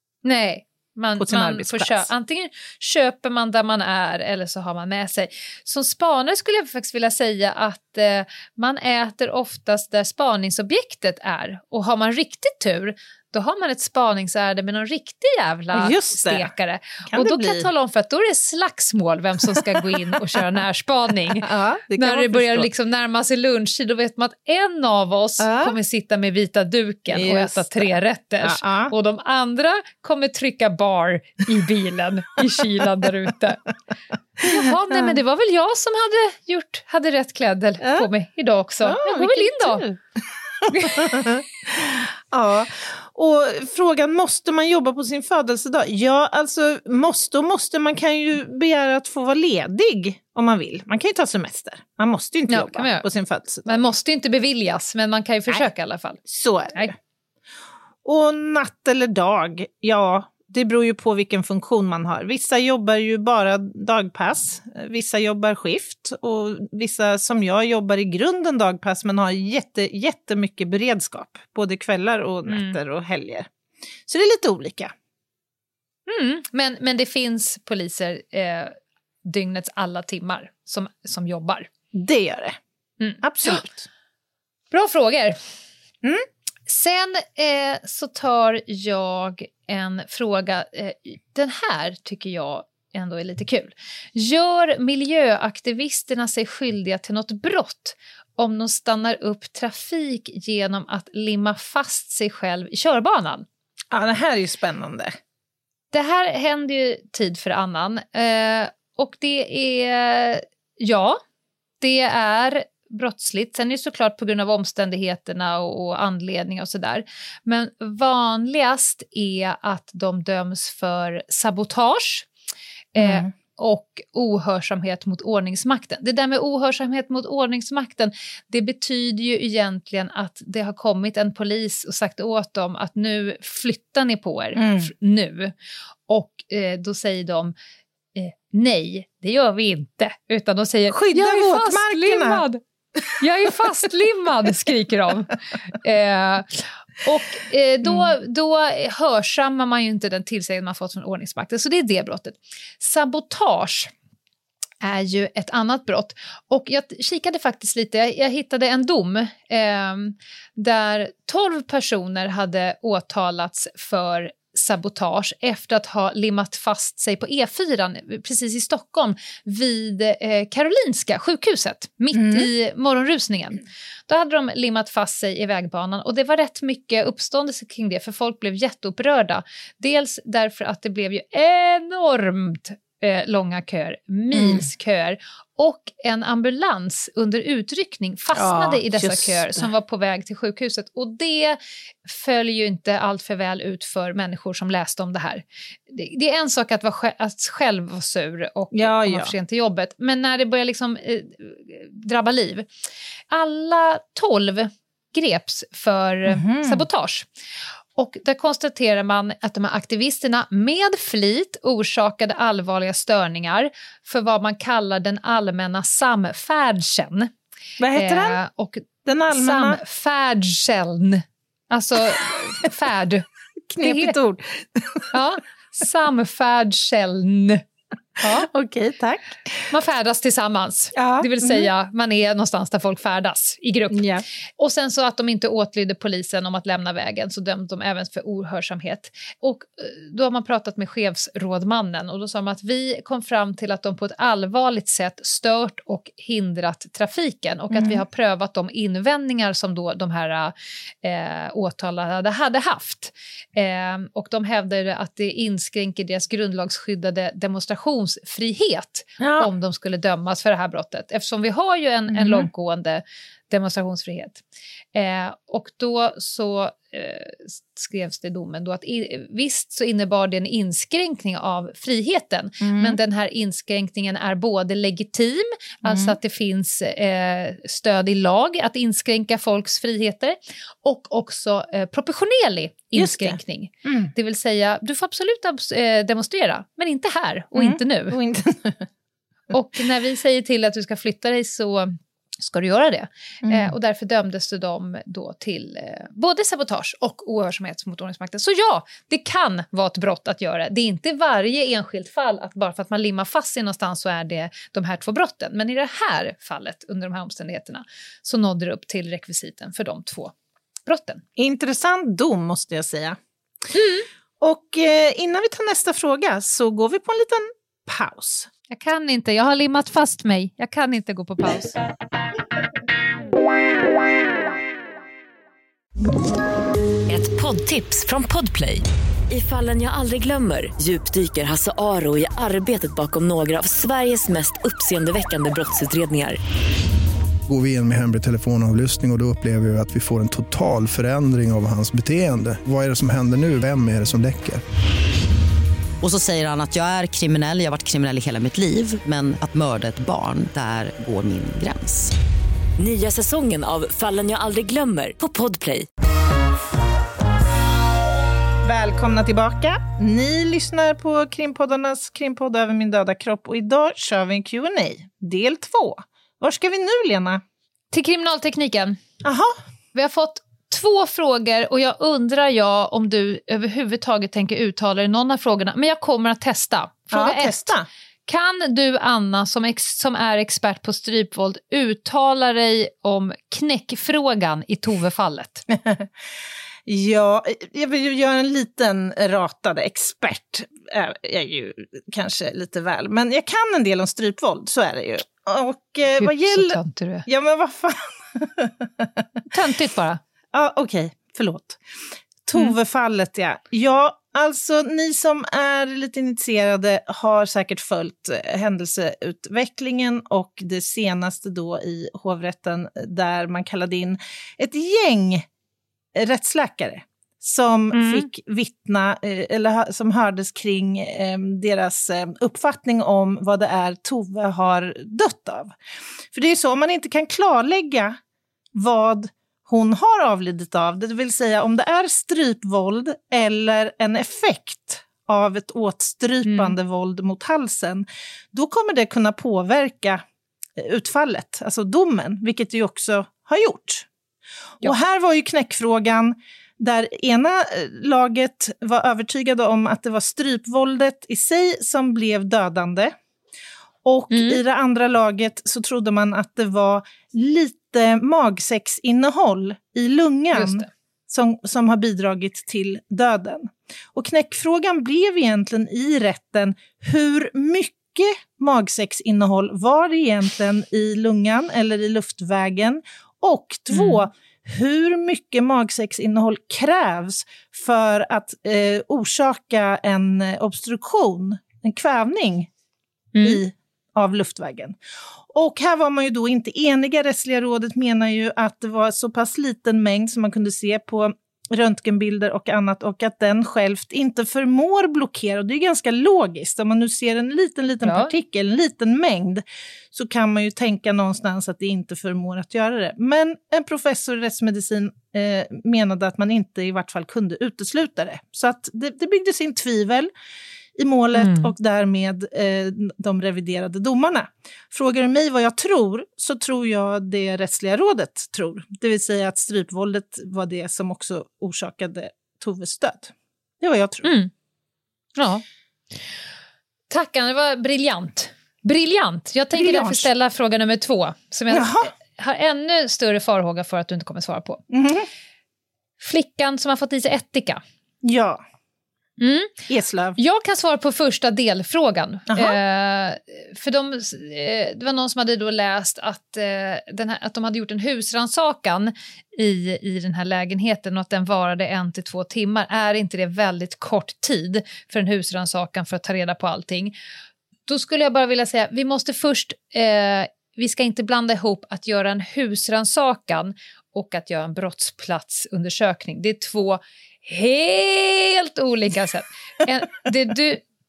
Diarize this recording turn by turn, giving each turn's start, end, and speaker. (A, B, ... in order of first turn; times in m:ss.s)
0:00.2-0:33.6 A
0:01.2-0:02.1 B
0:15.7-0:16.5 B
0:17.1-0:17.7 B
0:19.4-0:20.4 B
0:21.4-0:22.7 B
0:25.4-0:25.8 B
0:27.1-0:27.9 B
0:28.4-0:28.9 B
0:34.4-0:39.9 A
0:34.4-0:35.2 B
0:37.8-0:38.1 B
0:38.8-0:40.0 B
0:40.6-0:53.8 B
0:40.7-0:41.2 A
0:52.5-0:53.1 A
0:53.6-0:56.2 A
0:56.2-0:56.9 B
0:58.0-1:13.5 B
1:12.5-1:12.8 A
1:14.1-1:14.9 B
1:16.1-1:21.7 A
1:21.9-1:22.6 B
1:23.0-1:23.6 A
1:23.2-1:23.9 B
1:24.7-1:25.4 A
1:26.7-1:43.5 A
1:43.9-1:45.2 B
1:45.9-1:51.2 A
1:51.8-2:02.3 A
2:03.0-2:15.5 A
2:03.0-2:03.3 B
2:14.6-2:14.9 B
2:16.1-2:17.5 A
2:18.2-2:22.6 A
2:20.9-2:22.4 B
2:23.2-2:33.9 A
2:27.8-2:28.1 B
2:34.8-3:22.7 A
2:52.1-2:52.5 B
3:04.3-3:04.7 B
3:08.4-3:09.7 B
3:18.7-3:19.3 B
3:23.3-3:27.3 A
3:26.3-3:26.8 B
3:28.0-3:37.3 A
3:37.8-3:38.4 B
3:38.0-3:43.2 A
3:39.0-3:39.8 B
3:43.7-3:45.1 B
3:43.8-3:44.2 A
3:45.1-3:47.6 A
3:48.2-3:49.7 B
3:48.2-3:48.5 A
3:49.7-3:54.0 A
3:51.0-3:51.7 B
3:53.9-3:54.2 B
3:54.6-4:10.5 A
4:07.7-4:08.0 B
4:11.0-4:24.4 A
4:19.2-4:19.5 B
4:22.1-4:22.5 B
4:25.0-4:48.2 A
4:32.6-4:33.0 B
4:35.8-4:36.2 B
4:42.9-4:44.1 B
4:47.5-4:48.9 B
4:49.5-5:10.3 A
4:53.4-4:53.7 B
5:10.9-5:11.2 A
5:11.4-5:13.2 B
5:13.7-5:14.0 A
5:14.4-5:18.5 B
5:18.7-5:21.8 A
5:27.1-5:36.4 C
5:37.5-5:44.6 D
5:46.0-5:52.1 E
5:52.8-5:55.9 C
5:58.6-6:07.4 B
6:07.9-6:09.0 A
6:09.2-6:09.6 B
6:10.0-6:25.6 A
6:17.1-6:17.9 B
6:25.7-6:26.1 B
6:26.9-6:39.3 B
6:36.2-6:37.3 A
6:39.5-6:40.2 A
6:40.5-6:41.8 B
6:42.4-6:55.5 B
6:56.2-7:05.8 B
6:57.9-6:58.3 A
7:06.3-7:08.2 B
7:08.8-7:20.2 B
7:16.5-7:16.8 A
7:20.8-7:24.1 B
7:24.8-7:33.2 B
7:34.0-8:02.7 B
7:34.3-7:34.6 A
7:40.5-7:40.9 A
7:53.9-7:54.2 A
8:03.4-8:03.6 A
8:03.4-8:30.3 B
8:18.0-8:18.3 A
8:31.0-8:44.3 B
8:31.3-8:31.7 A
8:44.2-8:44.5 A
8:45.4-8:45.6 A
8:47.1-8:54.8 A
8:49.7-8:50.3 B
8:51.7-8:52.1 B
8:54.9-8:55.3 B
8:56.2-8:57.8 A
8:58.2-8:58.6 B
8:59.4-8:59.8 A
8:59.9-9:00.4 B
9:00.4-9:17.2 A
9:02.5-9:02.8 B
9:17.9-9:30.8 A